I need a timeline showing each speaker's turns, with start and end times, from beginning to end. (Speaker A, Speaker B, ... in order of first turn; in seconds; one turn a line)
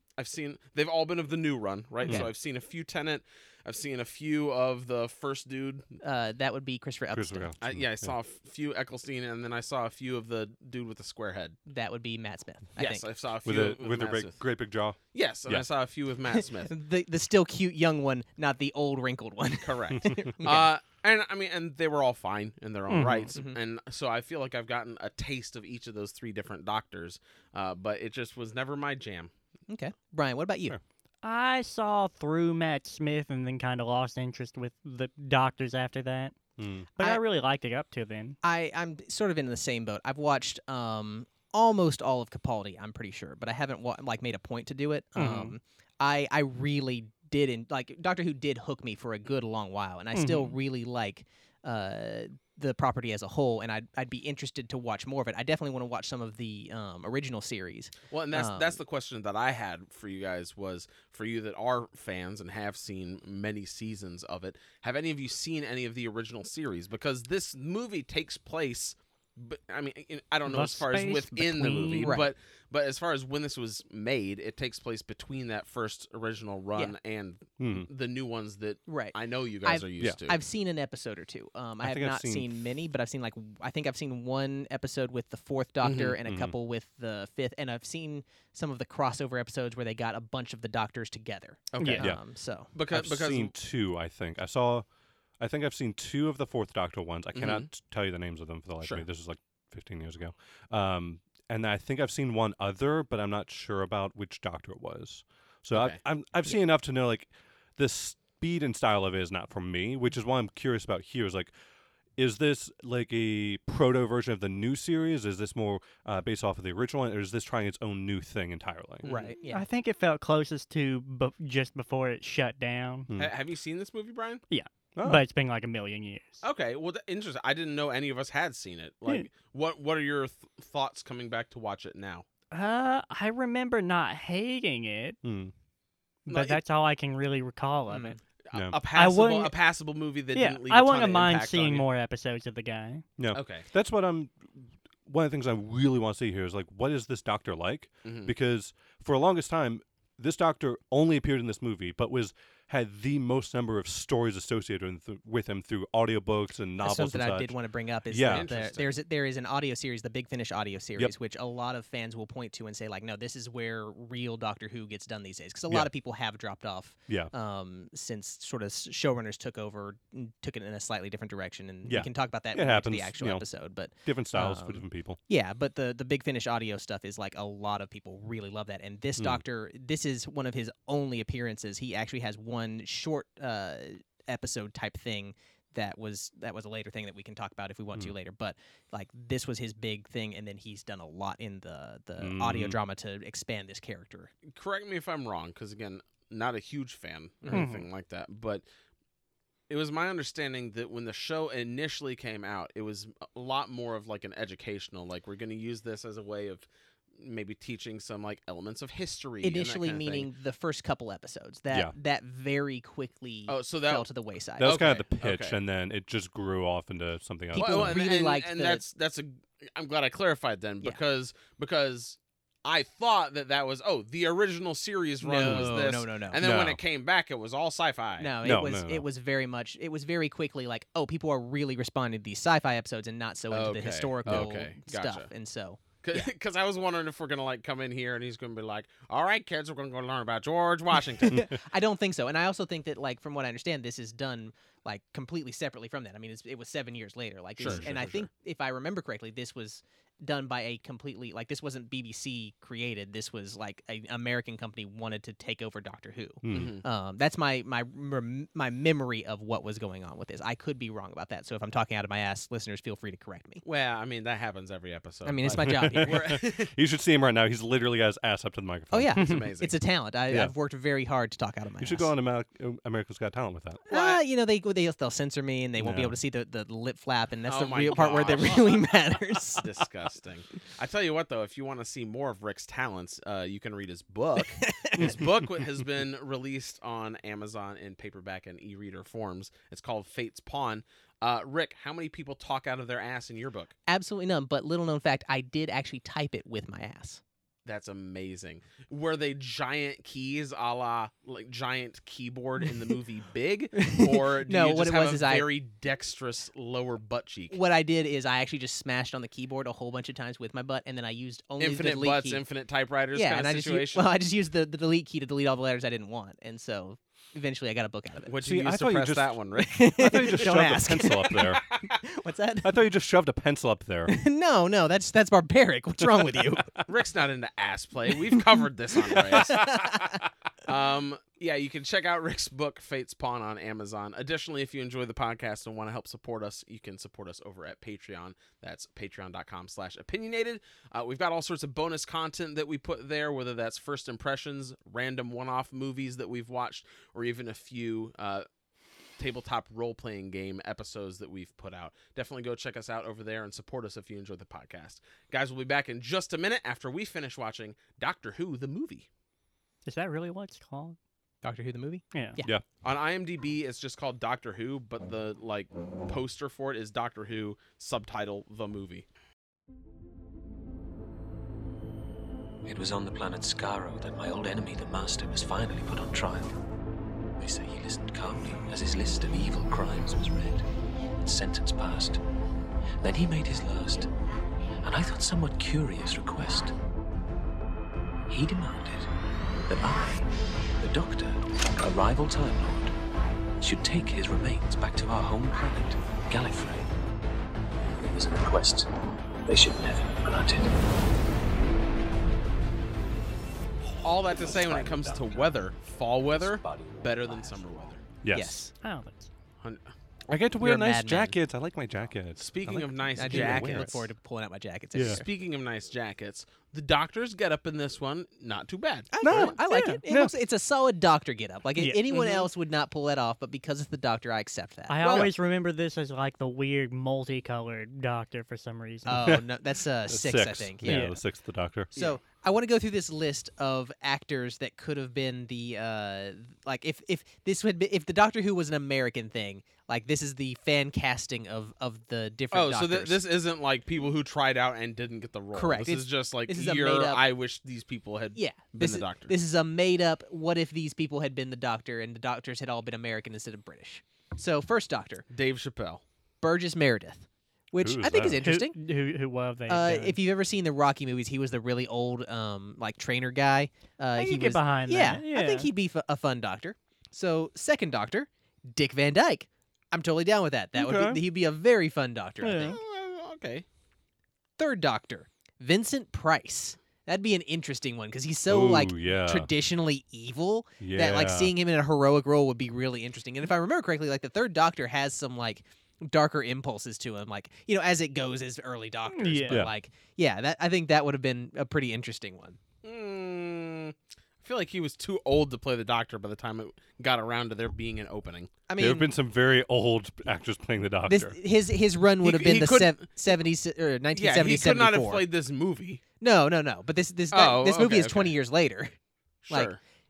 Speaker A: 0.2-5.9
Speaker B: 6.0-7.5
Speaker C: 7.1-8.1
Speaker A: 7.6-11.6
Speaker B: 11.7-13.1
Speaker A: 12.8-14.4
Speaker C: 13.4-15.6
Speaker A: 15.1-16.7
Speaker B: 16.4-20.7
Speaker A: 19.6-29.3
Speaker D: 22.9-23.3
Speaker B: 29.7-30.8
Speaker D: 31.2-36.4
Speaker C: 36.6-36.9
Speaker D: 37.0-38.4
Speaker B: 38.4-58.8
Speaker D: 45.1-45.6
Speaker D: 50.1-50.5
Speaker A: 58.1-80.4
Speaker D: 70.5-72.2
Speaker B: 72.0-72.3
Speaker C: 77.6-77.9
Speaker B: 78.9-92.7
Speaker C: 81.8-82.5
Speaker A: 85.8-86.2
Speaker C: 86.2-86.5
Speaker A: 91.7-92.0
Speaker D: 91.8-92.0
Speaker A: 92.7-93.5
Speaker C: 92.9-94.8
Speaker C: 95.4-111.5
Speaker A: 97.3-97.7
Speaker A: 105.7-106.0
Speaker C: 112.2-119.0
Speaker A: 119.0-119.3
Speaker B: 119.0-119.7
Speaker D: 119.5-123.1
Speaker A: 123.2-124.4
Speaker D: 124.5-126.4
Speaker C: 125.0-125.2
Speaker A: 126.4-132.2
Speaker D: 132.5-135.2
Speaker C: 135.2-135.5
Speaker D: 136.3-138.2
Speaker A: 136.3-136.6
Speaker B: 137.9-138.2
Speaker A: 138.4-141.9
Speaker C: 138.5-138.8
Speaker D: 138.9-139.5
Speaker D: 140.3-143.0
Speaker C: 143.2-157.6
Speaker A: 143.3-143.7
Speaker A: 148.0-148.3
Speaker B: 156.8-194.3
Speaker C: 158.1-158.5
Speaker A: 158.2-159.0
Speaker C: 171.8-173.4
Speaker C: 174.0-175.2
Speaker C: 192.2-192.8
Speaker A: 194.4-198.6
Speaker D: 197.5-197.9
Speaker A: 199.7-210.3
Speaker B: 209.4-214.8
Speaker A: 213.5-214.1
Speaker C: 214.6-218.0
Speaker A: 214.6-215.6
Speaker B: 217.5-218.8
Speaker A: 217.5-228.3
Speaker B: 225.2-226.4
Speaker C: 225.4-225.8
Speaker C: 226.4-226.8
Speaker B: 228.2-236.2
Speaker C: 228.4-229.1
Speaker A: 233.5-235.3
Speaker C: 234.2-234.5
Speaker A: 236.0-241.5
Speaker B: 241.3-263.6
Speaker A: 247.6-248.3
Speaker C: 247.6-248.0
Speaker C: 256.4-256.8
Speaker A: 256.5-256.8
Speaker A: 263.6-266.7
Speaker B: 265.2-266.4
Speaker C: 265.7-269.3
Speaker B: 268.9-272.1
Speaker A: 269.1-269.8
Speaker C: 271.8-273.8
Speaker A: 273.9-274.2
Speaker B: 273.9-279.7
Speaker C: 275.8-276.1
Speaker A: 277.5-293.7
Speaker B: 284.6-285.2
Speaker C: 284.9-285.2
Speaker B: 293.9-297.2
Speaker A: 297.6-307.6
Speaker B: 303.8-305.5
Speaker B: 307.5-312.4
Speaker A: 311.6-314.1
Speaker B: 313.1-318.3
Speaker A: 318.2-320.4
Speaker C: 318.4-319.3
Speaker B: 319.6-322.8
Speaker C: 319.9-321.6
Speaker C: 322.6-324.1
Speaker B: 324.1-326.7
Speaker A: 326.9-348.4
Speaker B: 329.1-330.2
Speaker A: 349.2-359.1
Speaker D: 359.8-361.0
Speaker B: 361.4-362.6
Speaker D: 362.1-362.4
Speaker A: 362.8-369.1
Speaker E: 372.6-376.6
Speaker E: 377.4-380.6
Speaker E: 381.2-382.2
Speaker E: 383.0-384.1
Speaker E: 384.8-386.7
Speaker E: 388.3-389.1
Speaker E: 389.7-390.3
Speaker E: 390.8-392.9
Speaker E: 393.6-396.9
Speaker E: 397.9-398.9
Speaker E: 399.4-400.8
Speaker E: 403.8-405.7
Speaker A: 404.0-408.0
Speaker E: 406.3-408.0
Speaker C: 408.2-408.6
Speaker B: 408.3-408.7
Speaker D: 408.8-409.3
Speaker A: 409.6-409.9
Speaker C: 410.3-414.0
Speaker B: 410.6-411.3
Speaker A: 412.4-414.0
Speaker B: 413.2-415.2
Speaker C: 414.9-415.2
Speaker A: 415.0-419.5
Speaker B: 419.1-425.3
Speaker C: 419.2-420.3
Speaker D: 419.7-420.0
Speaker D: 421.8-422.4
Speaker A: 422.1-422.4
Speaker D: 424.9-429.4
Speaker B: 429.1-431.2
Speaker C: 429.1-429.4
Speaker C: 430.1-431.9
Speaker D: 430.8-431.2
Speaker B: 431.9-443.2
Speaker A: 442.5-449.3
Speaker B: 445.5-447.2
Speaker B: 448.3-455.2
Speaker A: 455.3-456.0
Speaker B: 456.4-458.8
Speaker C: 457.8-458.4
Speaker D: 458.4-460.2
Speaker B: 459.7-472.8
Speaker D: 464.1-465.7
Speaker C: 470.7-471.2
Speaker D: 472.4-472.8
Speaker A: 472.6-473.6
Speaker B: 474.6-492.6
Speaker C: 478.5-479.5
Speaker C: 480.8-481.5
Speaker D: 489.1-489.7
Speaker A: 492.8-498.5
Speaker B: 498.7-499.1
Speaker C: 498.8-501.4
Speaker B: 501.1-505.2
Speaker A: 502.2-503.1
Speaker A: 504.1-506.0
Speaker B: 506.2-508.9
Speaker A: 507.3-508.3
Speaker A: 509.4-509.8